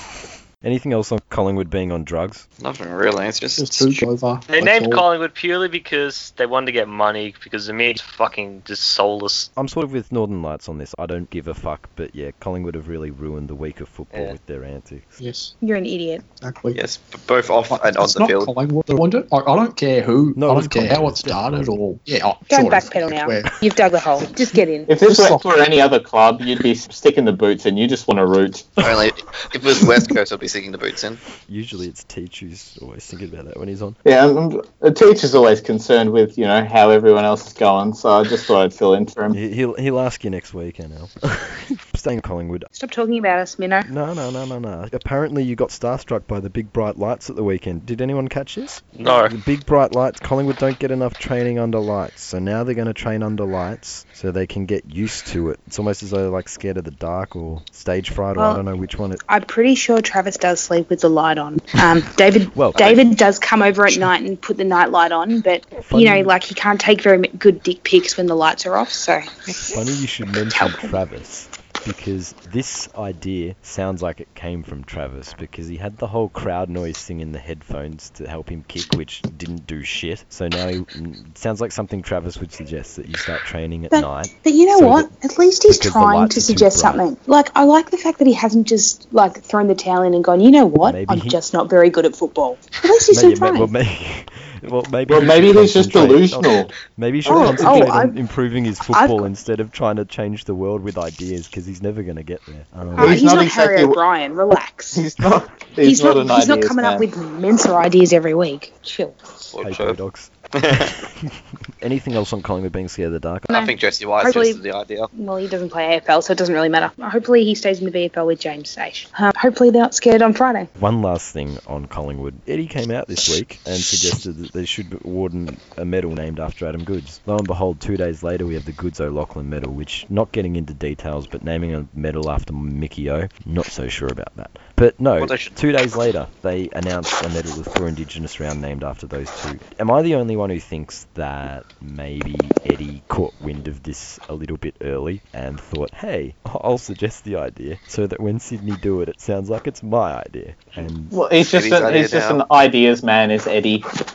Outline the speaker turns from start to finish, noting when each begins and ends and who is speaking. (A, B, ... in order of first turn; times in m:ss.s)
0:00.6-0:02.4 A
0:02.6-0:04.0 B
0:03.6-0:05.0 C
0:04.5-0:09.5 D
0:09.6-0:15.2 A
0:15.2-0:15.5 C
0:15.6-0:16.2 E
0:16.4-0:16.8 C
0:16.7-0:18.5 B
0:17.7-0:23.6 C
0:20.3-0:21.7 A
0:22.5-0:24.9 E
0:24.9-0:28.8 F
0:25.1-0:25.4 C
0:28.8-0:31.2 B
0:31.4-0:34.0 A
0:34.0-0:39.4 F
0:39.3-0:42.7 A
0:42.8-0:43.9 E
0:43.8-0:59.2 A
0:49.0-0:49.3 D
0:58.3-0:58.6 E
0:59.3-1:09.7 E
1:02.5-1:02.9 A
1:02.7-1:03.0 B
1:05.8-1:06.3 A
1:09.6-1:25.1 A
1:10.5-1:11.0 E
1:23.9-1:33.7 E
1:25.7-1:27.0 A
1:30.8-1:31.4 A
1:33.1-1:43.3 A
1:35.1-1:36.7 F
1:37.2-1:37.9 F
1:37.2-1:38.2 E
1:38.9-1:39.3 E
1:42.9-1:45.0 E
1:43.0-1:44.0 F
1:44.9-1:47.0 F
1:45.8-1:49.2 E
1:49.5-1:50.0 B
1:49.6-1:53.5 A
1:50.5-1:50.9 B
1:53.5-1:55.1 B
1:53.5-1:54.6 E
1:55.1-2:00.7 E
2:00.8-2:31.1 A
2:15.2-2:15.5 B
2:31.1-2:33.8 F
2:31.4-2:32.4 B